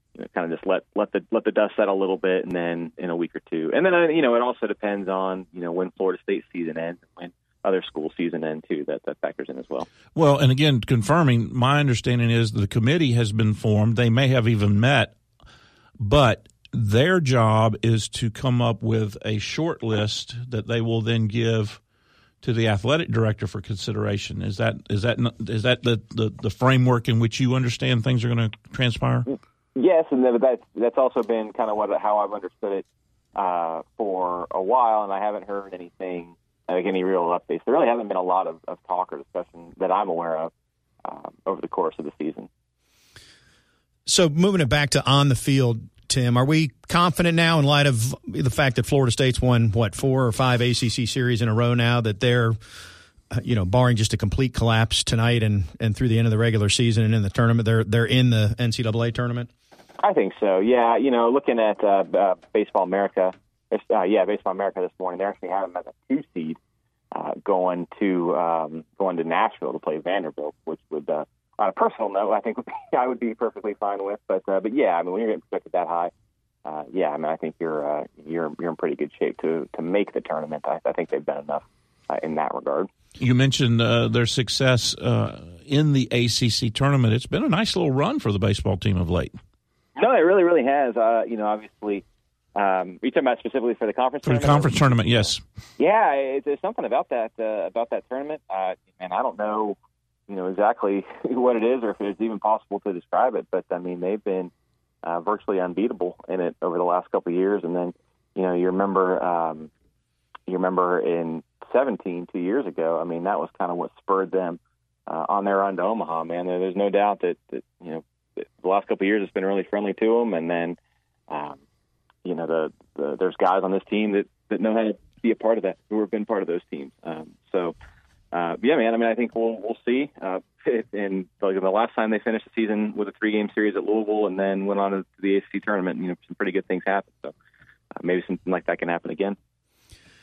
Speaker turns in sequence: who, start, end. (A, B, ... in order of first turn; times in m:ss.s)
0:00.2-0:09.9 A
0:10.1-0:15.1 B
0:16.0-0:21.8 B
0:22.4-0:29.3 B
0:29.3-0:40.5 A
0:41.0-0:42.5 A
0:44.1-0:52.6 C
0:53.3-0:59.5 C
1:00.0-1:06.6 A
1:07.1-1:16.1 A
1:16.6-1:22.9 A
1:23.2-1:29.4 B
1:30.0-1:32.0 A
1:32.5-1:39.8 A
1:34.2-1:35.4 B
1:40.3-1:44.5 A
1:45.0-1:49.7 A
1:50.5-2:00.8 A
2:01.3-2:01.6 A
2:02.2-2:07.7 A
2:08.3-2:17.3 A
2:18.0-2:19.4 A